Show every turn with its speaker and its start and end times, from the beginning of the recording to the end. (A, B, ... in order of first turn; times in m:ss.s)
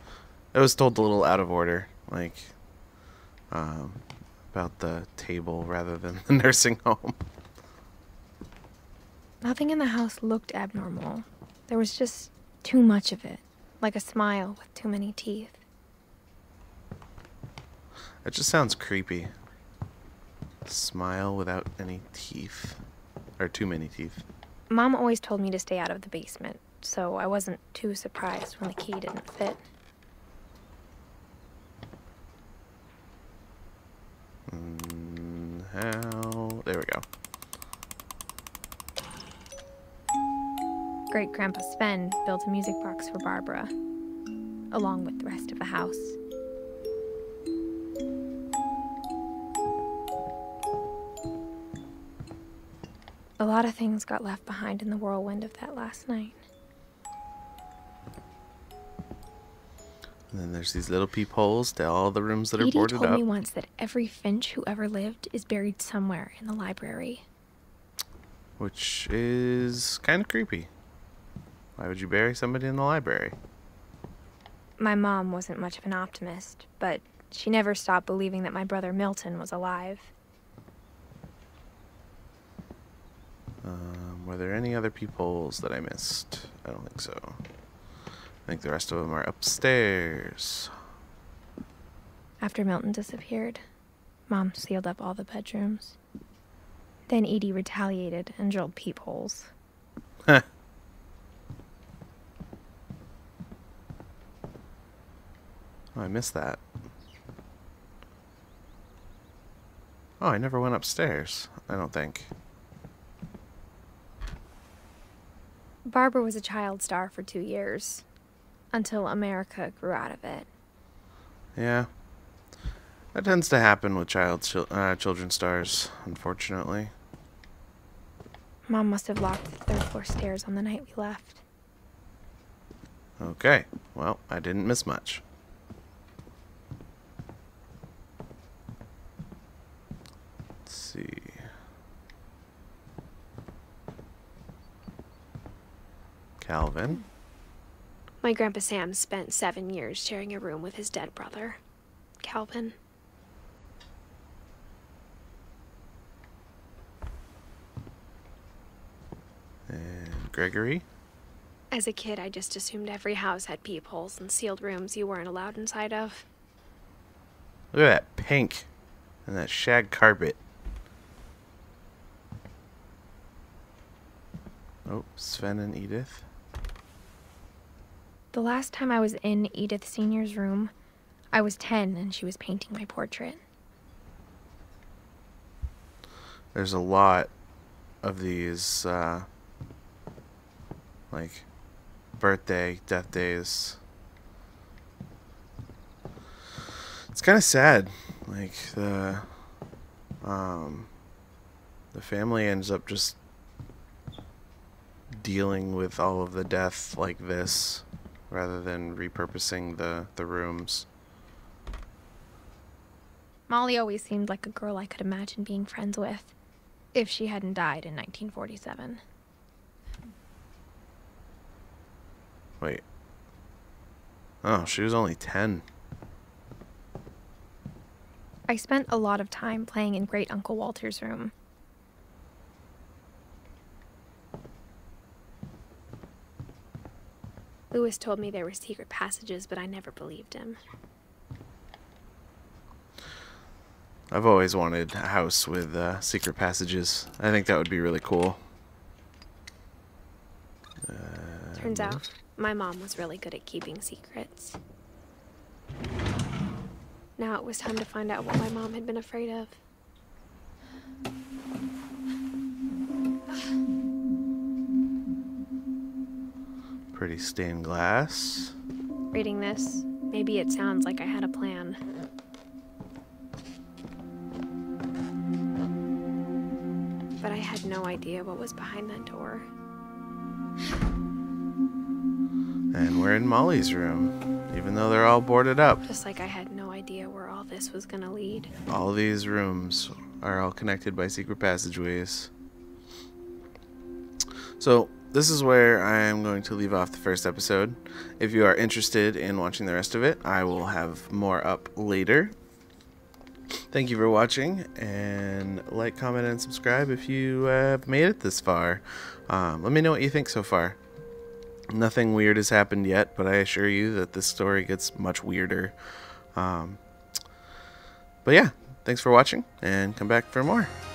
0:00.5-0:02.5 A
0:03.5-0:07.2 A
0:09.4-0:15.6 B
0:18.2-0:19.3 A
0:20.6-0:22.8 A
0:23.4-0:24.2 A
0:24.7-0:29.7 B
0:34.5-0:37.0 A
0:41.1-0:43.7 B
0:44.7-0:46.2 B
0:53.4-0:56.4 B
1:00.3-1:03.2 A
1:02.6-1:07.2 B
1:08.6-1:10.7 A
1:11.8-1:13.4 A
1:14.8-1:20.1 B
1:23.6-1:27.4 A
1:28.5-1:30.7 A
1:32.4-1:33.6 B
1:34.3-1:36.0 B
1:37.1-1:39.5 B
1:46.0-1:46.6 A
1:50.2-1:52.3 A
1:55.9-1:58.0 B
1:58.7-2:00.5 B
2:01.6-2:01.9 A
2:03.1-2:06.9 A
2:08.7-2:11.4 B
2:13.2-2:15.2 A
2:20.7-2:21.5 A
2:26.4-2:27.0 A
2:28.2-2:31.6 B
2:32.2-2:32.8 B
2:39.7-2:40.8 A
2:41.7-2:46.3 B
2:47.7-2:48.7 A
2:49.3-2:50.4 A
2:54.9-2:56.3 A
2:58.3-3:00.7 B
3:01.3-3:03.4 B
3:06.5-3:07.3 A
3:08.0-3:09.3 A
3:11.1-3:11.5 A
3:12.2-3:13.8 A
3:17.1-3:19.3 A
3:20.2-3:20.9 A
3:21.9-3:23.2 A
3:25.2-3:30.9 A
3:33.5-3:36.3 B
3:36.9-3:39.0 B
3:44.4-3:45.6 A
3:48.5-3:51.3 B
3:57.7-4:00.6 B
4:04.1-4:08.4 A
4:10.8-4:12.1 A
4:11.6-4:14.6 B
4:17.2-4:19.6 B
4:26.9-4:28.6 A
4:29.1-4:31.8 B
4:37.2-4:39.5 B
4:42.7-4:45.8 A
4:45.8-4:48.5 B
4:48.7-4:52.3 A
4:54.6-5:02.4 A
5:03.7-5:10.8 A
5:11.7-5:16.8 A
5:18.2-5:20.7 A